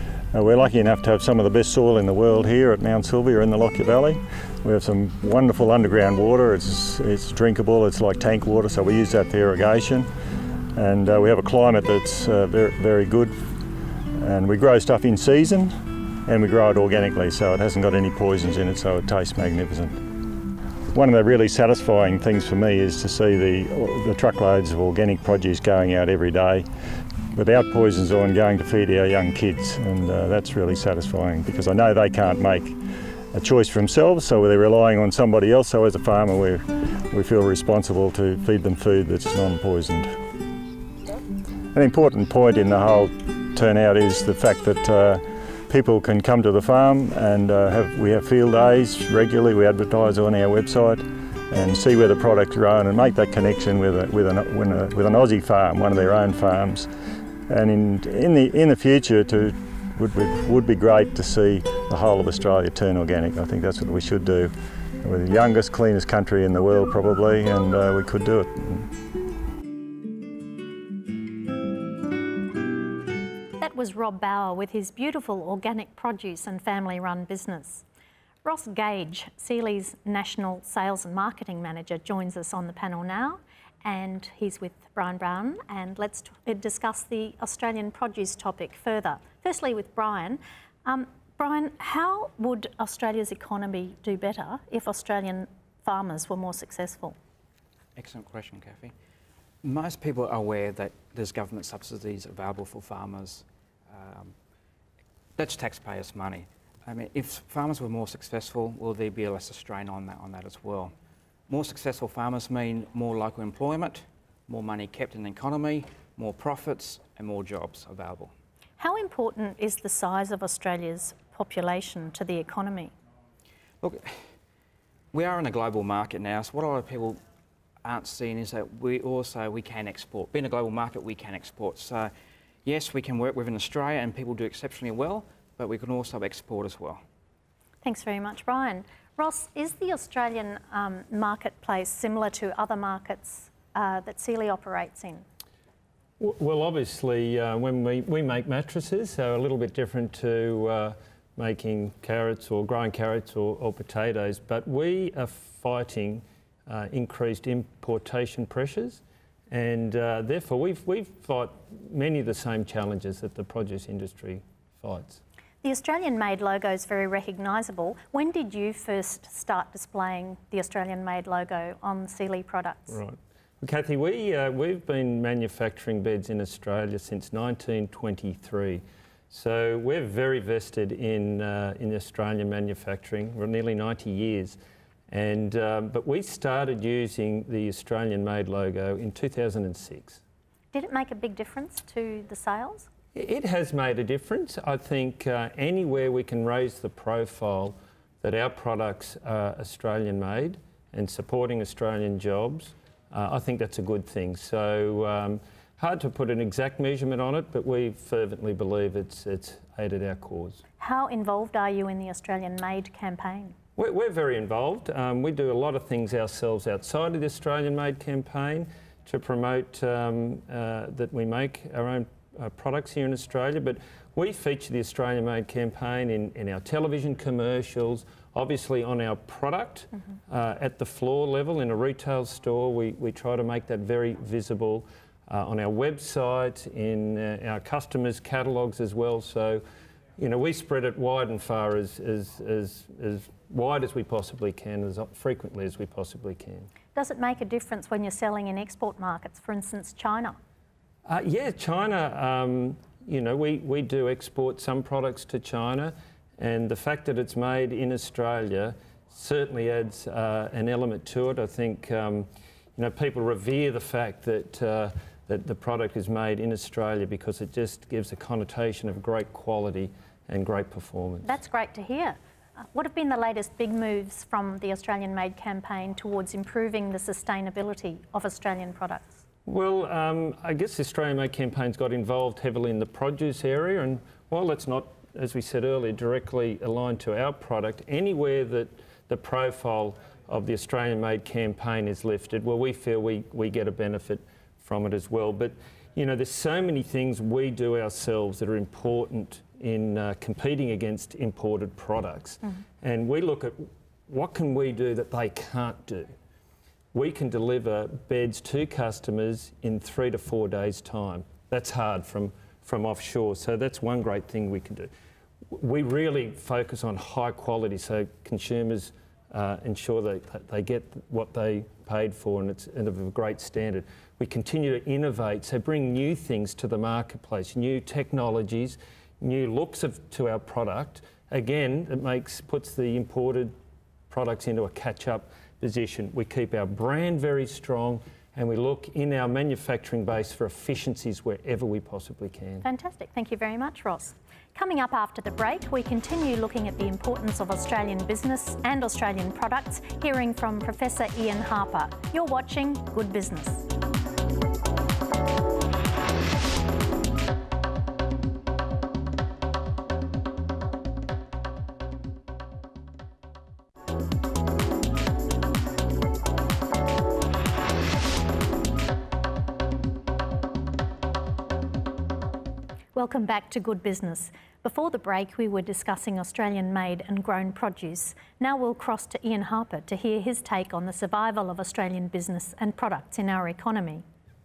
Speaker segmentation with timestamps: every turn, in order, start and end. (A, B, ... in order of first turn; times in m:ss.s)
0:00.3-0:10.1 A
0:10.8-0:20.0 A
0:20.9-0:26.7 A
0:27.3-0:32.8 A
0:33.3-0:40.2 A
0:41.7-0:56.9 A
0:57.5-1:08.9 A
1:13.6-1:17.8 B
1:18.4-1:37.2 B
1:38.0-1:38.9 C
1:39.6-1:44.3 C
1:45.4-1:50.9 C
1:51.5-1:58.3 C
1:58.8-2:02.9 B
2:03.8-2:04.2 C
2:05.1-2:07.2 C
2:07.8-2:12.1 C
2:12.6-2:17.0 C
2:17.8-2:25.2 B
2:26.2-2:45.2 D
2:45.6-2:53.0 B
2:52.9-3:04.6 D
3:05.1-3:10.2 D
3:10.7-3:12.9 B
3:13.1-3:30.6 D
3:30.8-3:33.6 B
3:33.8-3:59.6 D
4:00.2-4:06.7 D
4:06.9-4:10.4 B
4:11.1-4:31.3 D
4:31.2-4:32.2 B
4:32.7-4:39.2 B
4:39.4-5:06.1 D
5:06.9-5:14.9 D
5:15.5-5:33.5 D
5:34.1-5:42.6 D
5:42.6-5:53.7 B
6:12.9-6:24.0 B